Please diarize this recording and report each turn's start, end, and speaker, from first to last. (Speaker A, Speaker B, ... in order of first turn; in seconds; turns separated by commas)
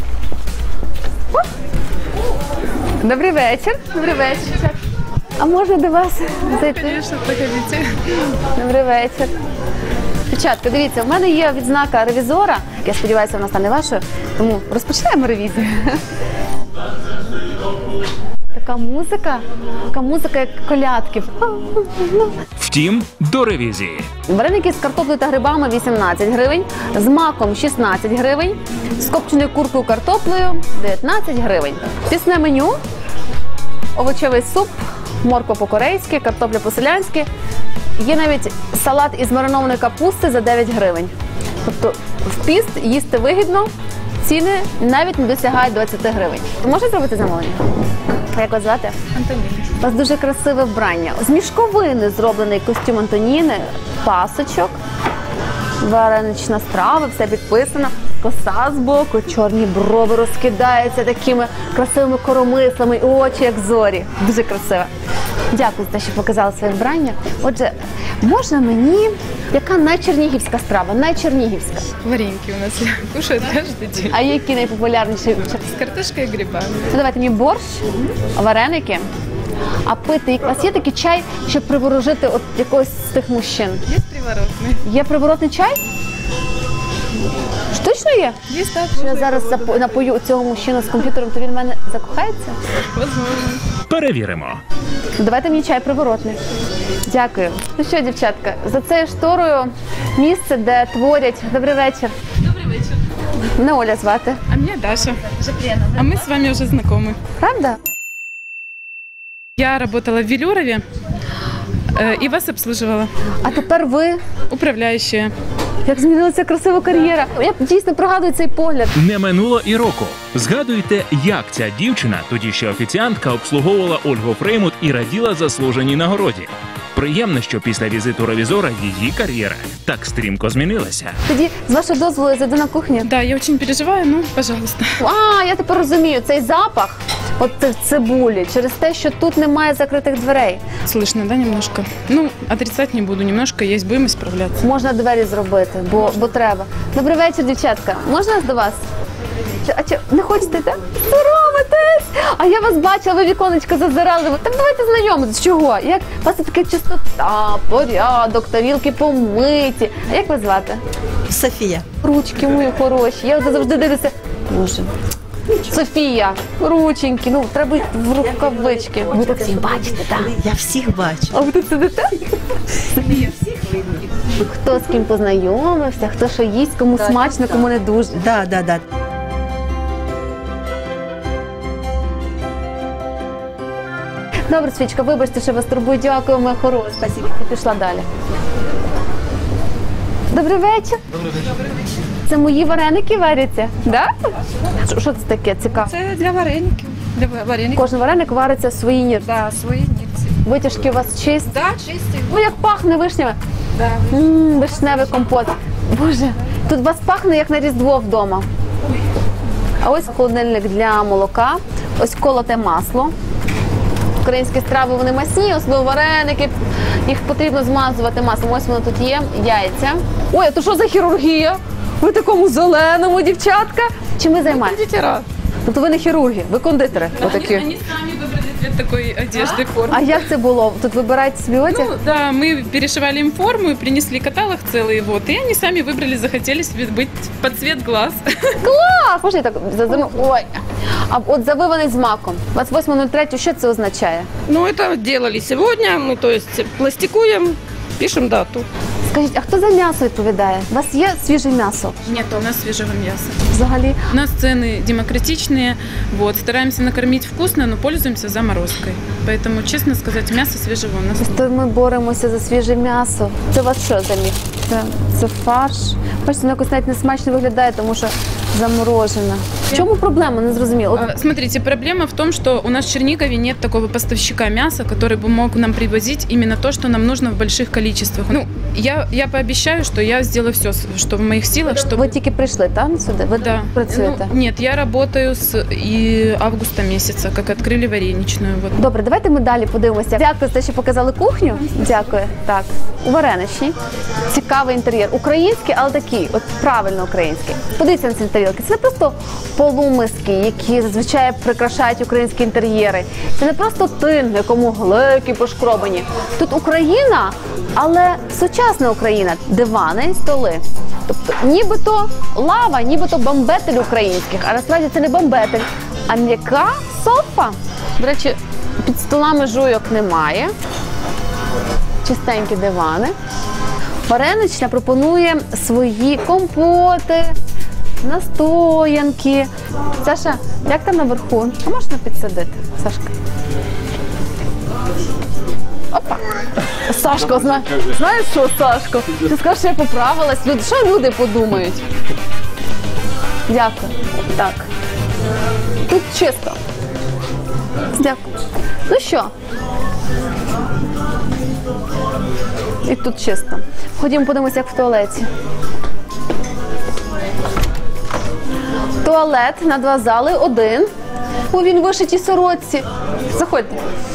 Speaker A: 3.0-4.8, Speaker A: 5.4-7.0, Speaker B: 6.5-8.0, Speaker A: 8.5-9.3, Speaker A: 10.3-16.0, Speaker A: 18.5-22.4, Speaker C: 22.6-24.1, Speaker A: 24.3-32.8, Speaker A: 33.9-37.3, Speaker A: 38.0-41.1, Speaker A: 41.6-43.7, Speaker A: 44.2-47.6, Speaker A: 48.3-49.0, Speaker B: 49.2-49.7, Speaker A: 49.7-54.8, Speaker A: 55.8-64.9, Speaker A: 65.5-71.9, Speaker B: 72.0-74.2, Speaker A: 74.1-75.6, Speaker B: 75.6-76.8, Speaker A: 76.9-79.0, Speaker A: 79.8-83.8, Speaker B: 83.9-84.8, Speaker A: 84.8-85.8, Speaker A: 87.7-88.4, Speaker B: 88.5-89.6, Speaker A: 88.9-92.6, Speaker B: 92.9-93.6, Speaker C: 93.9-94.6, Speaker A: 95.2-96.4, Speaker A: 97.0-102.1, Speaker A: 103.5-104.4, Speaker B: 104.5-107.2, Speaker A: 107.4-107.8, Speaker B: 109.6-110.8, Speaker B: 111.9-113.1, Speaker A: 113.4-114.2, Speaker B: 114.5-115.3, Speaker A: 115.8-118.9, Speaker C: 119.0-131.2, Speaker A: 131.3-133.1, Speaker B: 133.0-134.9, Speaker A: 135.0-140.6, Speaker B: 140.8-144.6, Speaker A: 144.6-148.8, Speaker A: 149.6-160.8, Speaker D: 161.3-161.9, Speaker A: 162.0-164.9, Speaker A: 165.6-170.4, Speaker D: 170.2-171.4, Speaker A: 171.3-172.1, Speaker A: 172.7-173.3, Speaker D: 173.7-173.9, Speaker A: 174.2-178.3, Speaker D: 178.2-178.8, Speaker A: 184.5-188.1, Speaker A: 190.3-191.0, Speaker A: 192.2-194.1, Speaker A: 194.7-195.9, Speaker E: 196.0-197.7, Speaker A: 197.7-199.3, Speaker E: 199.7-200.1, Speaker A: 200.4-201.6, Speaker A: 202.2-203.4, Speaker A: 204.0-208.4, Speaker A: 209.8-213.1, Speaker A: 214.2-224.8, Speaker E: 224.6-225.2, Speaker A: 225.6-227.7, Speaker B: 227.2-230.2, Speaker A: 229.9-231.9, Speaker B: 231.7-238.6, Speaker A: 238.6-244.3, Speaker E: 244.5-248.7, Speaker A: 249.1-252.0, Speaker B: 252.1-253.4, Speaker A: 253.5-254.1, Speaker B: 254.1-261.4, Speaker A: 261.3-271.1, Speaker B: 270.9-282.1, Speaker A: 281.7-284.3, Speaker B: 283.3-288.8, Speaker A: 288.8-293.7, Speaker A: 294.3-320.5, Speaker A: 322.0-323.1, Speaker A: 324.1-327.3, Speaker A: 328.0-329.5, Speaker A: 330.0-333.1, Speaker A: 335.9-336.2, Speaker A: 336.8-341.8, Speaker A: 343.5-344.7, Speaker A: 345.9-346.6, Speaker A: 347.9-348.2, Speaker A: 348.9-349.3, Speaker A: 352.8-355.3, Speaker A: 359.0-360.9, Speaker A: 361.5-363.8